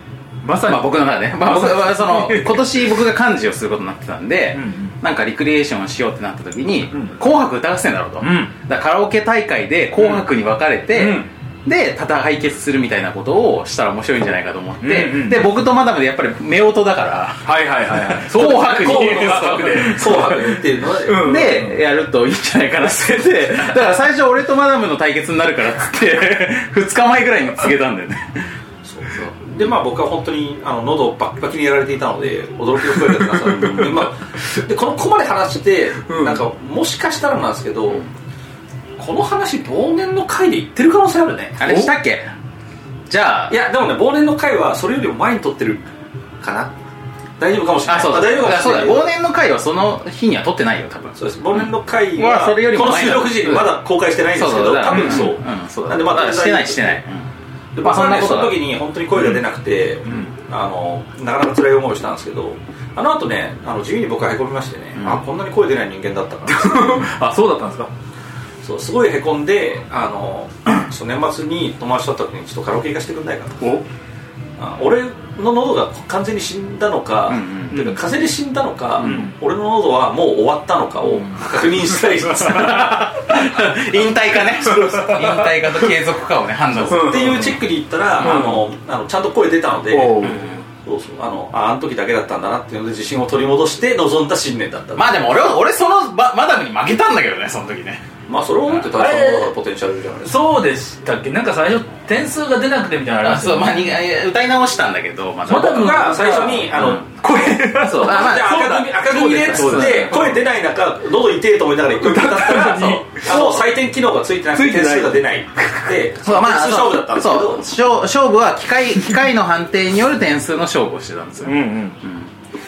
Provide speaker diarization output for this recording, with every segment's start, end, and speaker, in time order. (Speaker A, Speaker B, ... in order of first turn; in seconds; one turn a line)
Speaker A: 0.4-2.9
Speaker B: 0.6-20.3
Speaker A: 4.5-4.9
Speaker A: 8.2-8.5
Speaker A: 10.9-11.3
Speaker A: 14.8-15.5
Speaker A: 17.4-21.8
Speaker C: 18.4-21.3
Speaker B: 21.1-28.5
Speaker C: 28.8-38.0
Speaker A: 33.0-34.1
Speaker A: 36.0-36.4
Speaker C: 39.0-41.6
Speaker B: 41.6-42.3
Speaker A: 41.6-41.9
Speaker B: 43.1-43.6
Speaker C: 43.5-45.8
Speaker C: 46.4-46.7
Speaker C: 47.4-49.1
Speaker B: 47.8-53.8
Speaker C: 51.1-57.0
Speaker B: 54.3-57.3
Speaker C: 57.8-67.0
Speaker B: 57.8-58.7
Speaker A: 60.0-60.3
Speaker B: 65.0-65.2
Speaker A: 66.5-67.9
Speaker C: 68.6-73.7
Speaker A: 73.6-73.8
Speaker C: 74.6-83.1
Speaker B: 77.3-77.9
Speaker A: 79.0-79.3
Speaker B: 82.3-87.4
Speaker A: 84.6-85.6
Speaker A: 86.9-87.6
Speaker C: 86.9-95.2
Speaker B: 88.2-88.4
Speaker A: 88.2-88.6
Speaker A: 89.9-90.5
Speaker B: 90.2-90.6
Speaker B: 95.0-98.1
Speaker C: 98.3-100.4
Speaker A: 98.9-99.5
Speaker A: 100.2-103.9
Speaker B: 103.2-107.0
Speaker A: 105.5-110.4
Speaker C: 105.5-107.0
Speaker B: 107.7-110.2
Speaker C: 108.0-117.7
Speaker A: 112.0-113.4
Speaker B: 113.3-113.7
Speaker A: 114.5-115.9
Speaker B: 116.2-122.3
Speaker A: 121.4-122.0